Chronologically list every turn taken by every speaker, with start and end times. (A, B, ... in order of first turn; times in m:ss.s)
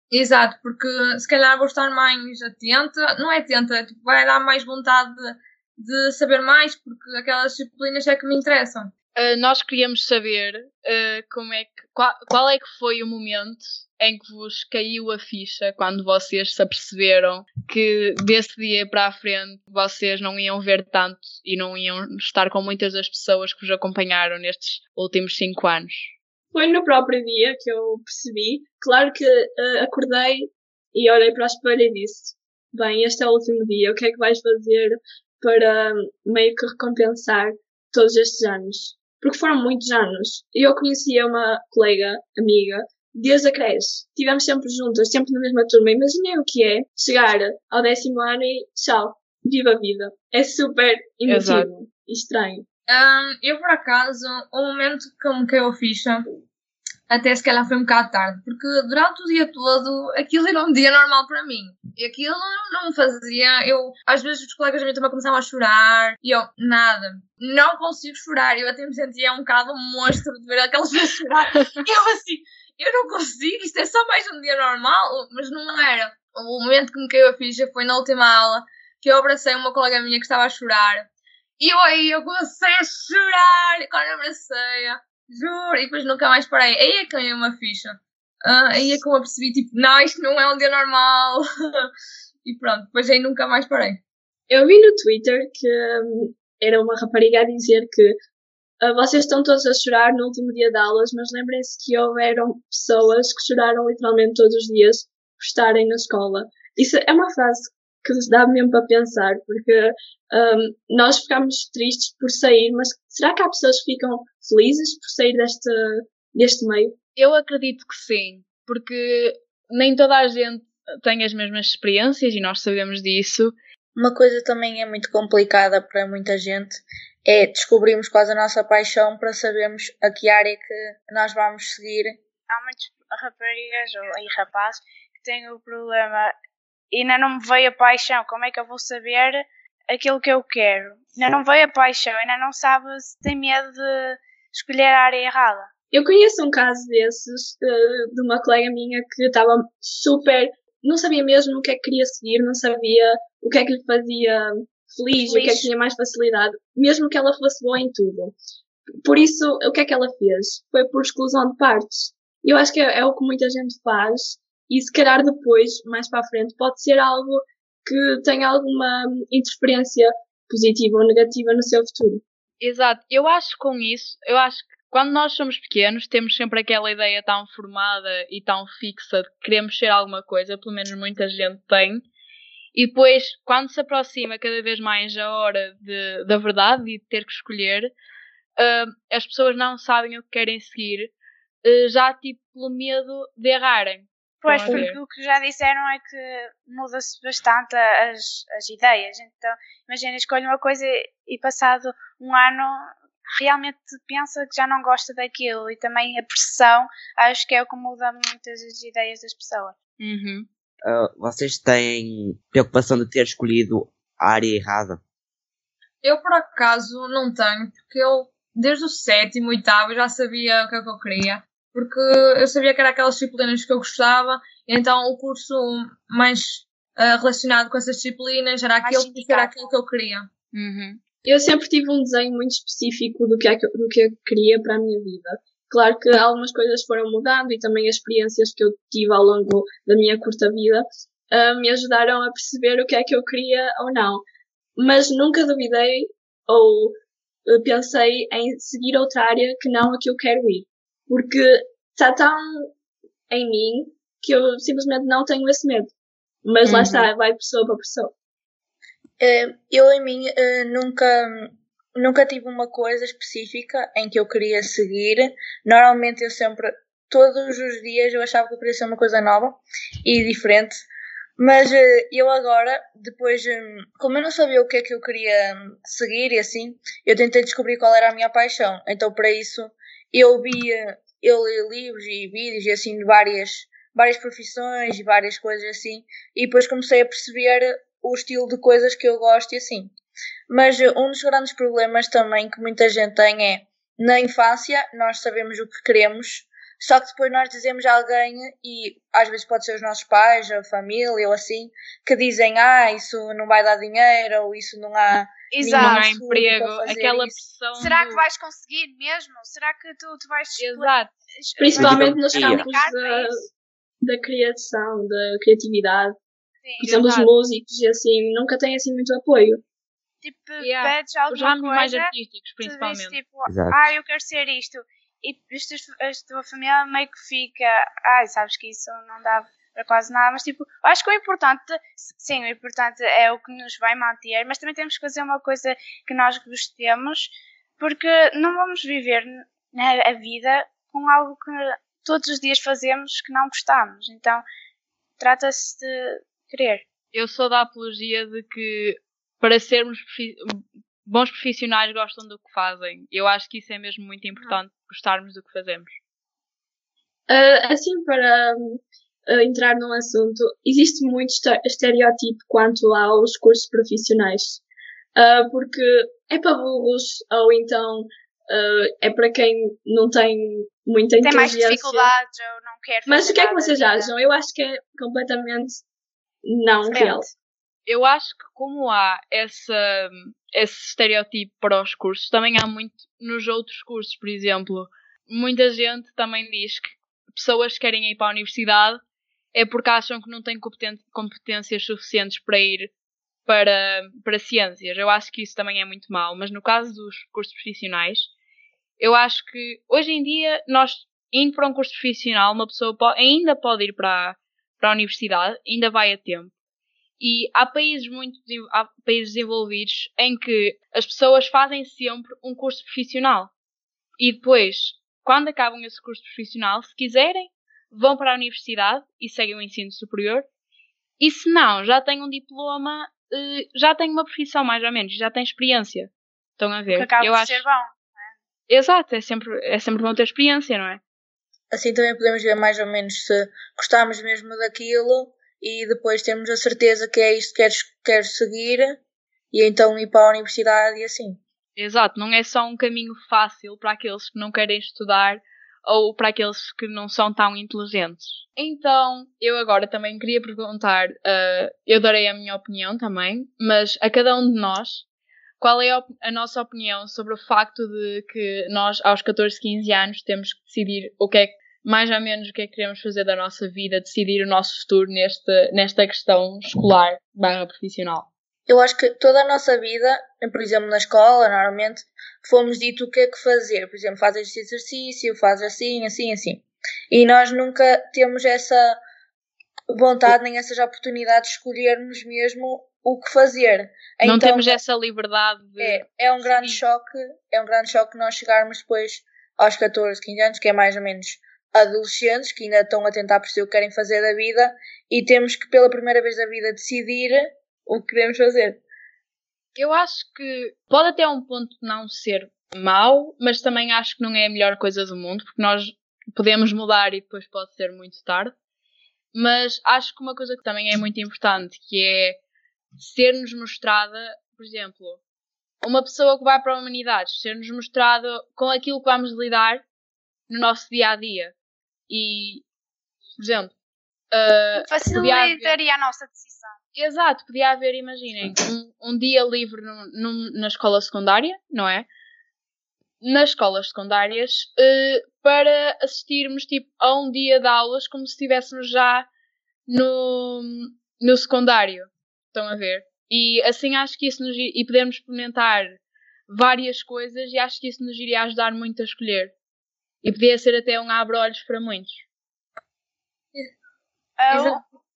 0:00.1-0:08.9 A
0:09.1-0:26.1 B
0:26.5-0:52.6 C
0:51.3-0:51.7 B
0:52.9-0:56.2 A
0:57.1-1:21.1 A
1:21.6-1:31.4 A
1:32.4-1:34.0 A
1:34.5-1:38.1 C
1:38.8-1:56.9 C
1:57.2-2:03.5 B
2:04.0-2:12.2 D
2:12.5-2:16.3 E
2:16.9-2:25.7 E
2:25.9-2:38.4 C
2:35.2-2:35.7 E
2:39.0-2:52.2 C
2:52.6-3:02.0 B
3:02.7-3:07.9 B
3:08.6-3:15.0 B
3:14.4-3:29.8 E
3:30.0-3:30.5 B
3:30.8-3:35.0 F
3:36.0-3:50.3 A
3:48.8-3:49.7 E
3:50.5-3:51.0 B
3:51.2-4:04.2 C
4:04.8-4:06.9 C
4:07.4-4:12.7 C
4:13.3-4:18.1 C
4:16.6-4:17.1 B
4:19.2-4:30.8 D
4:31.4-4:49.9 D
4:50.5-5:07.4 D
5:05.5-5:06.1 E
5:05.6-5:08.3 B
5:07.8-5:13.4 E
5:10.6-5:11.2 B
5:11.6-5:13.4 C
5:12.0-5:12.6 F
5:14.0-5:16.2 C
5:16.6-5:16.9 E
5:16.8-5:17.3 B
5:16.8-5:19.6 C
5:20.2-5:44.4 E
5:20.6-5:23.2 B
5:23.5-5:24.0 F
5:45.2-5:46.8 E
5:47.1-5:56.0 B
5:57.3-6:04.6 C
6:05.2-6:12.1 C
6:11.2-6:14.1 E
6:13.1-6:15.8 C
6:16.4-6:17.3 C
6:16.8-6:17.3 E
6:17.9-6:29.0 B
6:29.5-6:32.9 B
6:33.4-6:38.3 B
6:39.0-6:46.5 B
6:47.2-6:53.5 B
6:54.2-7:00.4 B
7:01.2-7:07.6 B
7:06.9-7:08.3 E
7:08.7-7:11.0 B
7:11.7-7:19.0 D
7:19.5-7:21.4 D
7:21.8-7:35.0 B
7:35.6-7:48.3 B
7:48.7-7:59.0 D
7:59.9-8:04.8 D
8:04.2-8:06.8 B
8:05.8-8:18.8 D
8:19.8-8:28.5 B
8:29.3-8:32.4 B
8:33.0-8:35.2 B
8:35.8-8:39.8 B
8:40.5-8:41.5 B
8:42.1-8:42.6 B
8:43.4-8:43.7 B
8:44.3-8:45.8 B
8:44.7-8:46.8 E
8:46.9-8:52.1 B
8:53.2-8:59.3 B
8:59.9-9:09.5 B
9:10.2-9:12.2 B
9:14.4-9:14.8 E
9:14.5-9:14.8 A